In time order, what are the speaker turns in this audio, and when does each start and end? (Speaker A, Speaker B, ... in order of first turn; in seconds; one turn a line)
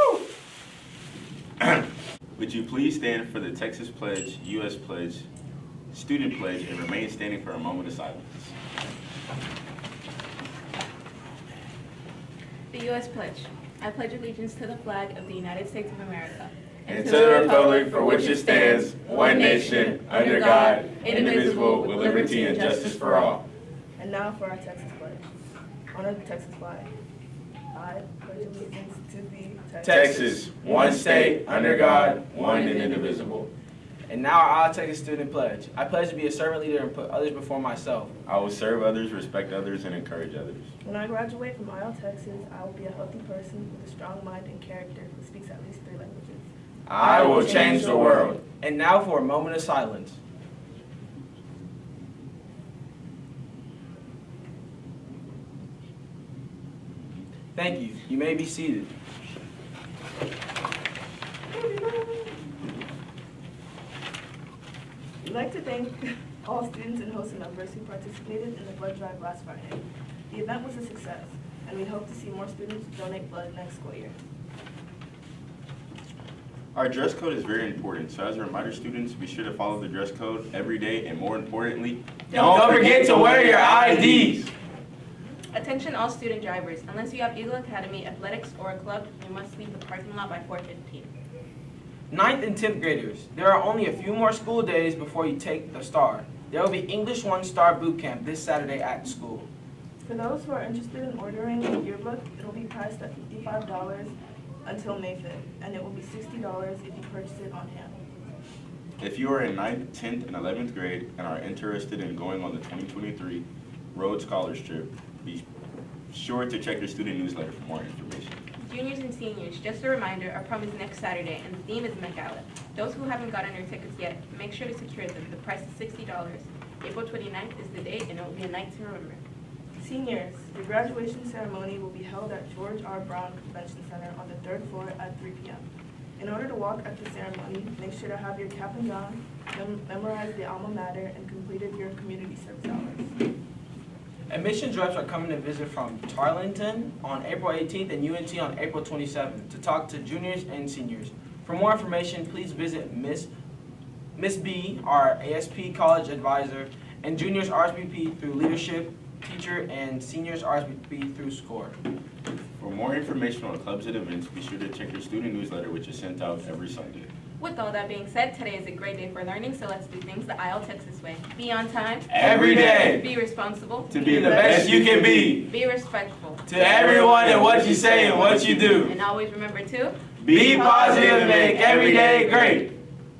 Speaker A: 1.6-5.2
Speaker A: 5.9-8.5
Speaker B: 12.7-23.3
Speaker A: 16.9-23.4
Speaker C: 24.0-25.2
Speaker C: 25.9-26.9
Speaker C: 27.7-30.4
Speaker D: 29.8-33.3
Speaker A: 29.8-33.5
Speaker D: 34.1-38.1
Speaker A: 38.2-40.7
Speaker C: 40.8-46.5
Speaker D: 46.9-50.2
Speaker A: 46.9-48.4
Speaker C: 47.0-48.3
Speaker D: 57.5-58.9
Speaker C: 61.5-62.3
Speaker C: 65.2-74.1
Speaker A: 76.7-84.5
Speaker D: 82.3-84.4
Speaker C: 82.5-83.0
Speaker B: 85.5-91.1
Speaker D: 92.1-99.5
Speaker C: 100.0-108.0
Speaker A: 109.0-115.4
Speaker A: 116.1-118.4
Speaker B: 118.6-129.2
Speaker C: 129.8-135.6
Speaker C: 136.2-143.1
Speaker D: 144.3-153.3
Speaker D: 154.2-161.7
Speaker A: 162.6-167.1
Speaker B: 167.4-176.5
Speaker A: 172.1-173.0
Speaker D: 172.2-173.0
Speaker A: 173.9-175.4
Speaker D: 174.0-175.4
Speaker C: 174.5-174.7
Speaker D: 176.4-178.9
Speaker A: 176.5-178.9
Speaker B: 178.8-181.8
Speaker A: 180.2-182.7
Speaker D: 180.3-182.7
Speaker C: 180.9-181.3